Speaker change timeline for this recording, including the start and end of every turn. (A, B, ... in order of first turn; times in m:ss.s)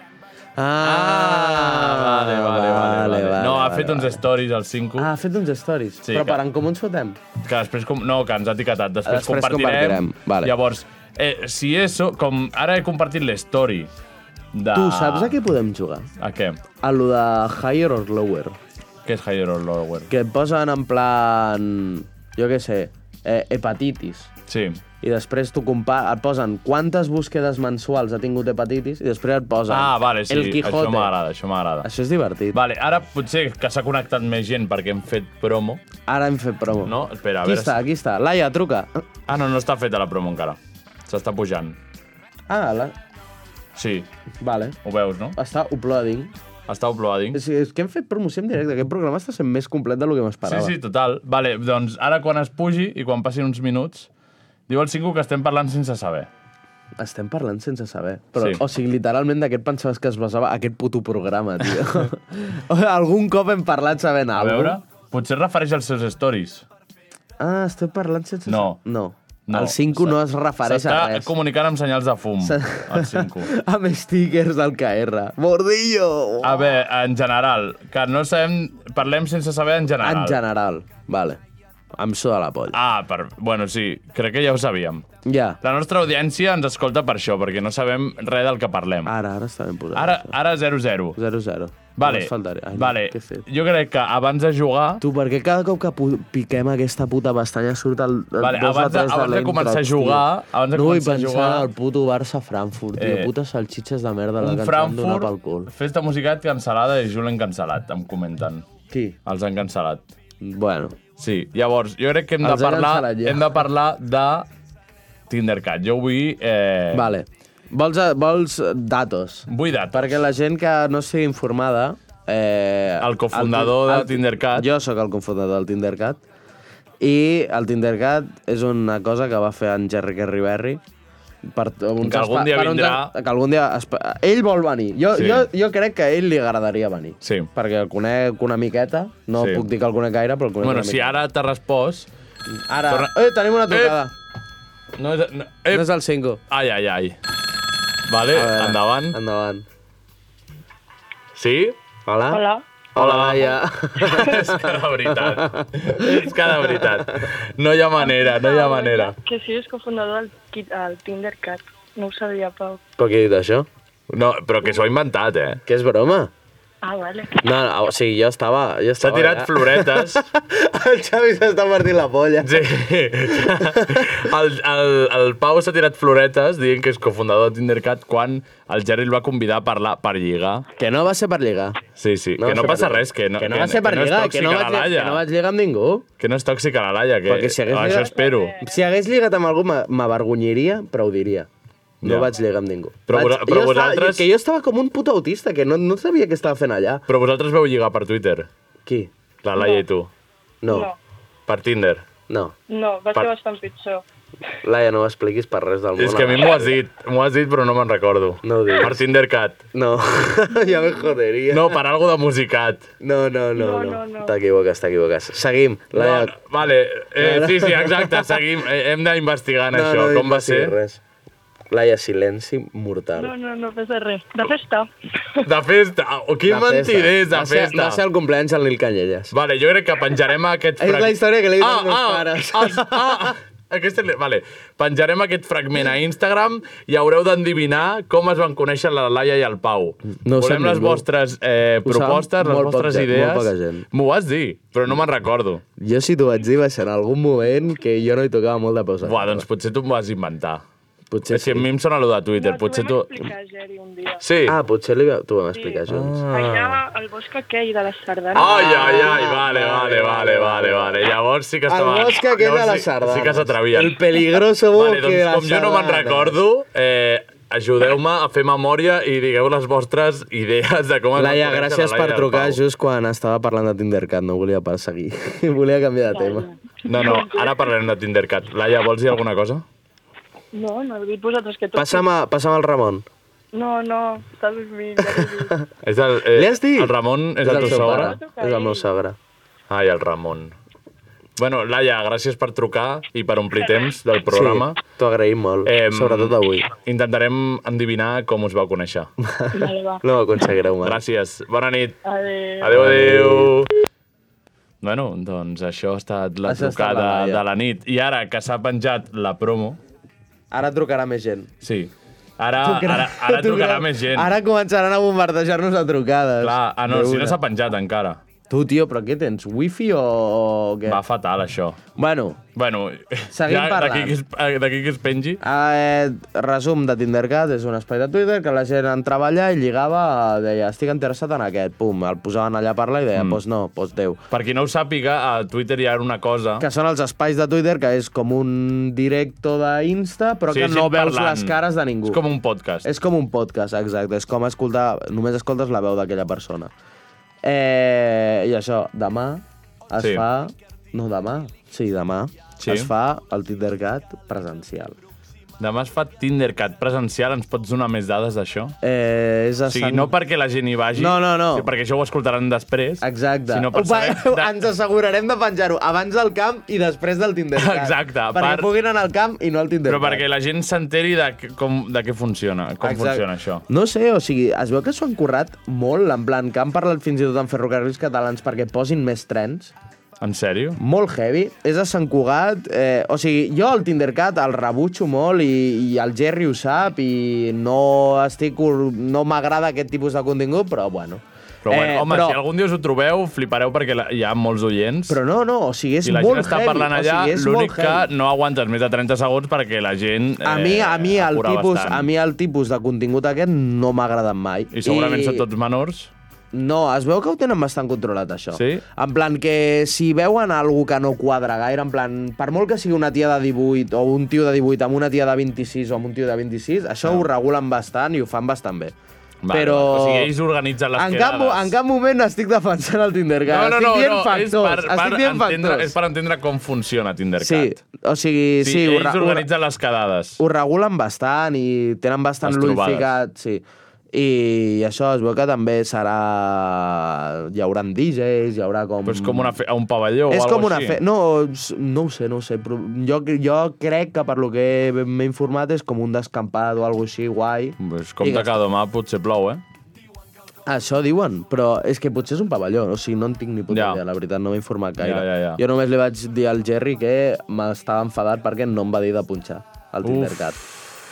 0:00.6-0:04.2 A
0:00.8-0:05.1 B
0:05.0-0:07.2 A
0:06.0-0:06.4 B
0:07.4-0:13.9 B
0:09.1-0:10.5 A
0:14.5-0:15.4 B
0:14.7-0:16.1 A
0:16.2-0:16.6 B
0:16.8-0:18.6 A
0:19.0-0:20.1 B
0:20.1-0:24.3 A
0:24.5-0:24.8 B
0:25.0-0:31.1 A
0:29.7-0:31.9 B
0:31.8-0:32.6 A
0:32.5-0:35.8 B
0:36.1-0:39.0 A
0:36.8-0:37.8 B
0:39.3-0:41.8 B
0:42.5-0:43.0 A
0:43.8-0:44.1 B
0:44.4-0:44.8 A
0:44.8-0:45.4 B
0:45.4-0:46.3 A
0:46.7-0:47.4 B
0:47.3-0:50.8 A
0:50.4-0:54.1 B
0:54.7-0:56.3 B
0:57.0-1:04.8 A
0:58.4-0:58.6 B
1:04.4-1:06.6 B
1:07.4-1:11.3 A
1:08.5-1:08.8 B
1:09.5-1:13.5 B
1:12.4-1:16.7 A
1:16.4-1:20.4 B
1:20.0-1:21.4 A
1:22.0-1:22.8 A
1:22.7-1:25.0 B
1:25.2-1:25.6 A
1:25.6-1:29.1 B
1:29.0-1:30.3 A
1:29.9-1:31.2 B
1:31.2-1:33.4 A
1:32.0-1:35.0 B
1:35.0-1:45.7 A
1:38.4-1:41.7 B
1:43.0-1:43.3 B
1:44.4-1:48.6 B
1:48.9-1:49.2 A
1:49.3-1:50.0 B
1:50.4-1:51.0 A
1:51.2-1:54.5 B
1:52.4-1:53.6 A
1:55.3-1:57.1 B
1:56.9-2:06.2 A
1:59.5-2:00.2 B
2:03.0-2:04.7 B
2:07.0-2:10.8 A
2:11.4-2:21.2 A
2:12.0-2:13.1 B
2:15.1-2:15.5 B
2:17.2-2:17.5 B
2:19.4-2:19.7 B
2:20.6-2:22.1 B
2:22.7-2:24.1 A
2:22.9-2:23.1 B
2:23.7-2:24.0 B
2:25.0-2:25.9 B
2:25.7-2:26.4 A
2:26.5-2:27.2 B
2:28.1-2:29.2 B
2:28.3-2:29.6 A
2:31.3-2:31.8 B
2:32.1-2:32.4 A
2:32.3-2:32.6 C
2:33.0-2:36.9 A
2:33.0-2:39.2 B
2:38.0-2:42.8 C
2:43.0-2:43.7 A
2:44.1-2:45.6 B
2:45.6-2:46.3 A
2:46.8-2:47.4 C
2:47.4-2:52.6 A
2:49.0-2:50.2 B
2:52.4-3:00.7 B
2:53.4-2:54.2 A
3:00.8-3:01.8 A
3:02.0-3:05.2 B
3:02.4-3:06.0 A
3:06.2-3:08.6 B
3:07.3-3:11.5 A
3:07.8-3:08.8 C
3:12.0-3:12.3 B
3:12.0-3:17.0 A
3:13.1-3:14.3 B
3:17.1-3:18.5 B
3:18.9-3:19.1 A
3:19.4-3:20.1 B
3:19.6-3:19.8 C
3:20.6-3:20.9 A
3:20.6-3:21.0 C
3:21.5-3:22.1 B
3:22.3-3:22.6 A
3:22.7-3:24.0 C
3:24.6-3:26.8 A
3:26.0-3:29.6 B
3:28.4-3:29.0 A
3:29.7-3:31.8 A
3:31.5-3:32.9 B
3:33.0-3:36.4 A
3:33.5-3:34.3 C
3:35.9-3:40.8 B
3:37.2-3:38.3 A
3:39.7-3:41.0 A
3:41.7-3:43.3 A
3:43.2-3:44.9 C
3:45.4-3:48.0 B
3:46.5-3:49.3 A
3:49.3-4:05.6 B
3:50.8-3:53.4 A
4:00.2-4:01.0 A
4:01.8-4:03.9 A
4:05.8-4:09.4 A
4:09.0-4:10.6 B
4:11.1-4:11.7 A
4:11.3-4:13.2 B
4:12.3-4:14.2 C
4:14.2-4:14.6 B
4:14.5-4:16.8 A
4:15.5-4:19.2 C
4:15.9-4:16.2 B
4:18.3-4:21.0 A
4:18.3-4:32.6 B
4:21.7-4:26.4 A
4:31.2-4:36.5 A
4:36.1-4:37.7 C
4:36.9-4:39.6 B
4:40.5-4:42.1 C
4:41.8-4:43.0 A
4:43.5-4:45.6 C
4:45.2-4:45.6 A
4:45.8-4:48.2 B
4:46.3-4:49.2 A
4:47.5-4:48.9 C
4:49.7-4:50.6 B
4:51.4-4:54.8 B
4:53.6-4:53.9 C
4:54.3-4:56.7 A
4:55.6-4:59.1 B
4:59.2-5:01.0 A
4:59.5-5:00.0 C
5:00.8-5:02.0 B
5:02.0-5:02.8 C
5:02.6-5:03.7 B
5:02.7-5:03.6 A
5:04.8-5:09.8 B
5:06.5-5:07.4 A
5:10.5-5:11.5 A
5:11.6-5:14.3 B
5:12.6-5:17.4 A
5:16.4-5:18.2 B
5:18.5-5:21.0 A
5:20.9-5:21.8 B
5:22.0-5:22.4 A
5:22.6-5:25.4 B
5:23.3-5:24.2 A
5:25.4-5:34.2 A
5:33.1-5:33.4 B
5:34.3-5:36.6 B
5:36.6-5:42.2 A
5:40.5-5:42.9 B
5:42.8-5:46.7 A
5:47.4-5:55.0 A
5:50.0-5:50.2 B
5:52.6-5:52.9 B
5:55.6-5:58.8 B
5:58.8-6:00.1 A
5:59.7-6:04.5 B
6:01.0-6:01.7 A
6:03.0-6:10.2 A
6:07.6-6:08.7 B
6:09.9-6:13.6 B
6:12.8-6:19.7 A
6:20.2-6:20.8 B
6:20.8-6:32.4 A
6:31.6-6:35.2 B
6:35.1-6:38.1 A
6:36.0-6:42.1 B
6:40.4-6:45.5 A
6:44.7-6:46.1 B
6:46.5-6:58.9 A
6:48.5-6:48.8 B
6:59.4-7:01.8 B
6:59.5-7:00.3 A
7:01.0-7:06.0 A
7:03.5-7:07.8 B
7:07.4-7:09.5 A
7:08.6-7:10.4 B
7:10.4-7:19.6 A
7:12.4-7:13.1 B
7:19.0-7:21.0 B
7:20.3-7:28.6 A
7:27.8-7:29.6 B
7:30.6-7:40.6 A
7:33.7-7:34.0 B
7:35.0-7:35.6 B
7:40.0-7:40.6 B